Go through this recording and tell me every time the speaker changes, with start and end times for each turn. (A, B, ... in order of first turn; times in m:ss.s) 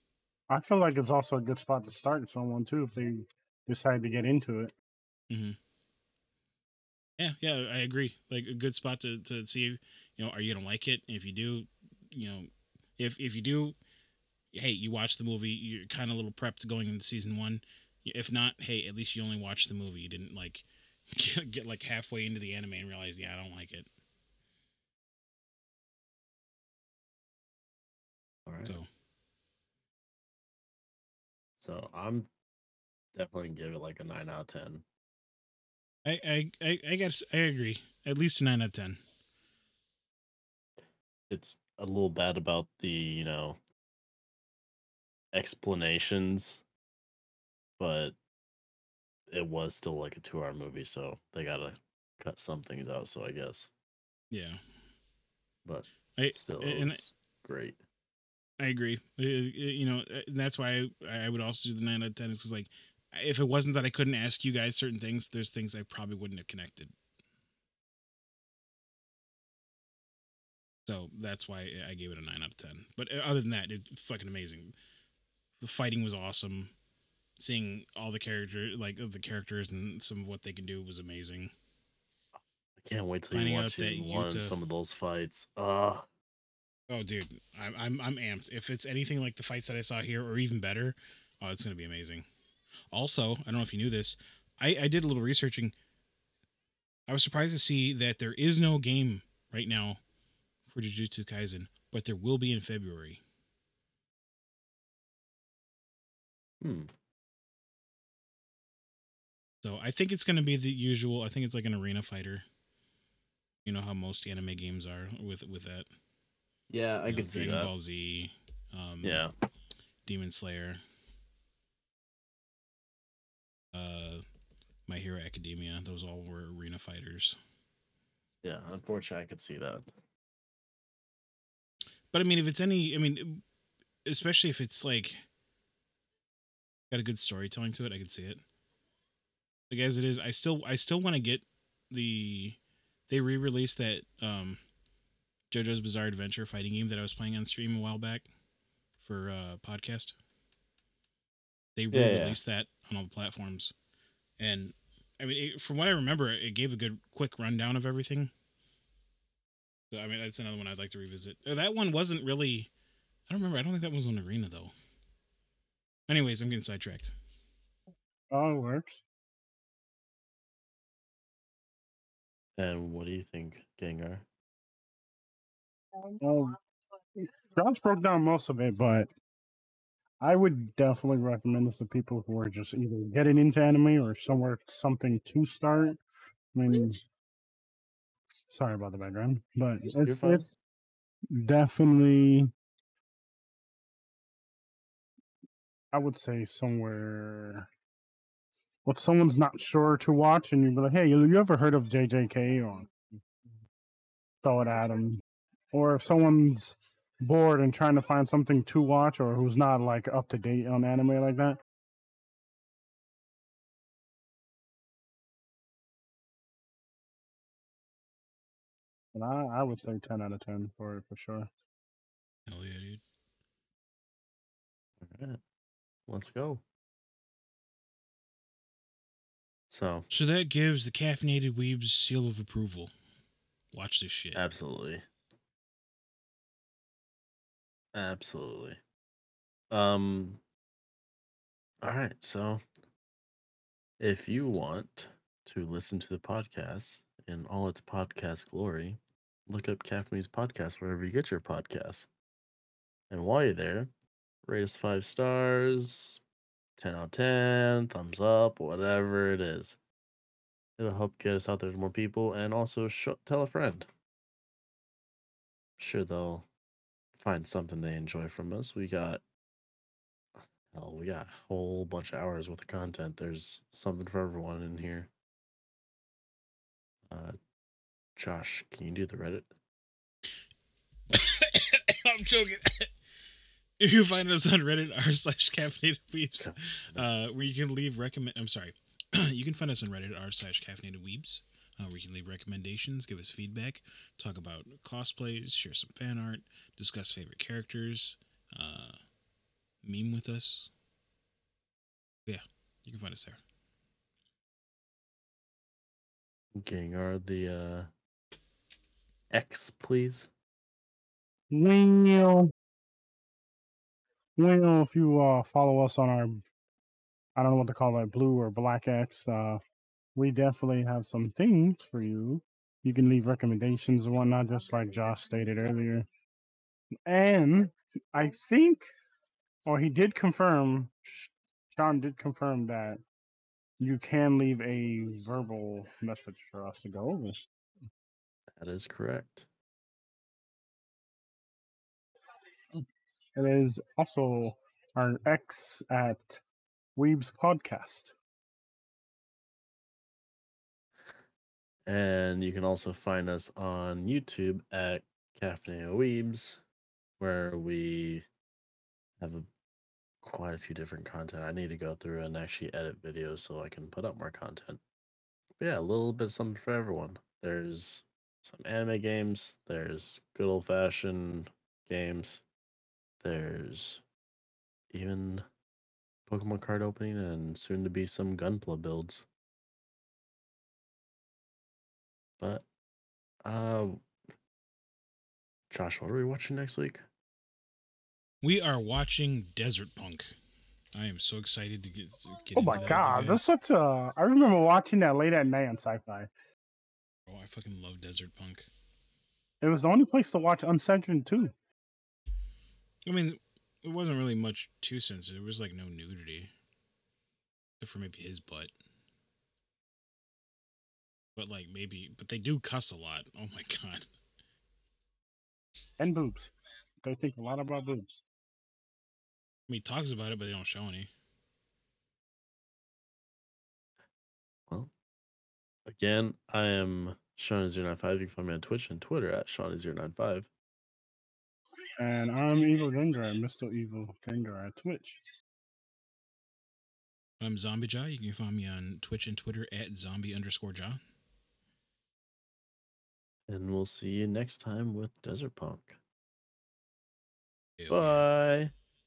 0:00.5-0:04.7 A
0:05.3-0:05.6 B
0:07.2-0:13.8 B
0:14.5-0:23.9 B
0:28.5-0:28.8 C
0:31.6-0:32.3 C
0:33.2-0:34.8 C
0:36.1-0:39.0 B
0:41.3-0:43.6 C
0:45.3-0:46.6 C
0:47.8-0:48.2 C
0:49.3-0:53.7 C
0:54.3-0:54.6 B
0:55.6-0:57.8 C
0:56.2-0:57.0 B
0:58.6-1:06.9 B
1:10.9-1:14.7 B
1:15.6-1:16.7 B
1:17.4-1:21.5 B
1:22.8-1:26.1 C
1:23.3-1:24.6 B
1:26.9-1:32.2 B
1:32.9-1:35.7 B
1:37.1-1:40.0 B
1:40.7-1:43.2 B
1:46.6-1:46.9 C
1:49.6-1:52.4 B
1:53.6-1:55.9 B
1:56.7-1:57.7 C
1:57.1-1:59.3 B
1:59.0-1:59.3 C
2:00.0-2:00.8 B
2:03.7-2:04.2 B
2:04.9-2:07.4 B
2:08.4-2:09.9 C
2:12.1-2:13.4 B
2:14.0-2:15.2 B
2:16.9-2:18.4 B
2:19.7-2:22.6 B
2:23.1-2:24.6 B
2:25.5-2:28.2 B
2:29.0-2:30.2 B
2:31.8-2:33.7 B
2:31.9-2:32.4 C
2:34.4-2:38.3 B
2:39.9-2:42.7 B
2:43.3-2:44.7 B
2:46.1-2:47.1 B
2:48.3-2:49.0 A
2:52.6-2:54.2 C
2:56.2-2:56.6 A
2:57.2-2:59.1 A
3:00.2-3:06.0 A
3:06.5-3:07.0 A
3:08.5-3:10.4 A
3:10.0-3:10.6 C
3:11.3-3:12.5 A
3:15.9-3:17.7 A
3:18.8-3:22.9 A
3:24.4-3:31.6 A
3:39.1-3:41.5 A
3:42.5-3:43.0 B
3:45.0-3:45.4 C
3:46.1-3:46.6 C
3:49.7-3:50.1 C
3:50.1-3:52.9 B
3:53.7-3:54.4 B
3:54.3-3:55.0 C
3:58.0-3:58.8 C
3:59.7-4:00.4 C
4:01.8-4:02.6 C
4:04.0-4:12.1 C
4:13.1-4:13.9 C
4:14.5-4:16.2 C
4:16.8-4:19.8 C
4:20.8-4:23.9 C
4:25.8-4:26.5 C
4:27.2-4:29.2 C
4:30.7-4:35.1 C
4:37.1-4:37.4 C
4:38.2-4:39.5 C
4:41.1-4:42.9 B
4:43.8-4:59.0 B
4:46.4-4:47.1 C
4:59.8-5:00.7 B
5:02.3-5:03.4 B
5:06.6-5:07.9 C
5:09.3-5:10.3 C
5:11.5-5:12.5 A
5:14.4-5:16.4 A
5:17.4-5:19.6 A
5:20.2-5:26.1 A
5:27.1-5:28.9 A
5:29.6-5:33.0 A
5:33.8-5:37.4 A
5:38.6-5:39.5 C
5:43.4-5:46.4 A
5:47.0-5:48.1 A
5:51.9-5:56.6 C
5:57.2-5:58.3 C
5:59.2-5:59.5 C
6:00.2-6:04.8 C
6:05.6-6:12.4 C
6:13.2-6:14.0 C
6:14.9-6:15.4 C
6:16.3-6:19.2 C
6:22.4-6:22.6 C
6:23.4-6:24.0 C
6:25.7-6:27.0 C
6:28.4-6:30.3 B
6:31.0-6:33.4 B
6:32.6-6:36.3 A
6:37.3-6:38.7 B
6:39.6-6:41.5 A
6:43.0-6:46.5 B
6:47.8-6:48.7 B
6:51.4-6:54.1 B
6:56.0-6:58.2 A
6:59.7-7:01.1 B
7:05.9-7:10.5 C
7:12.0-7:15.2 A
7:17.4-7:21.0 B
7:23.5-7:26.0 C
7:27.8-7:28.2 B
7:27.9-7:28.7 C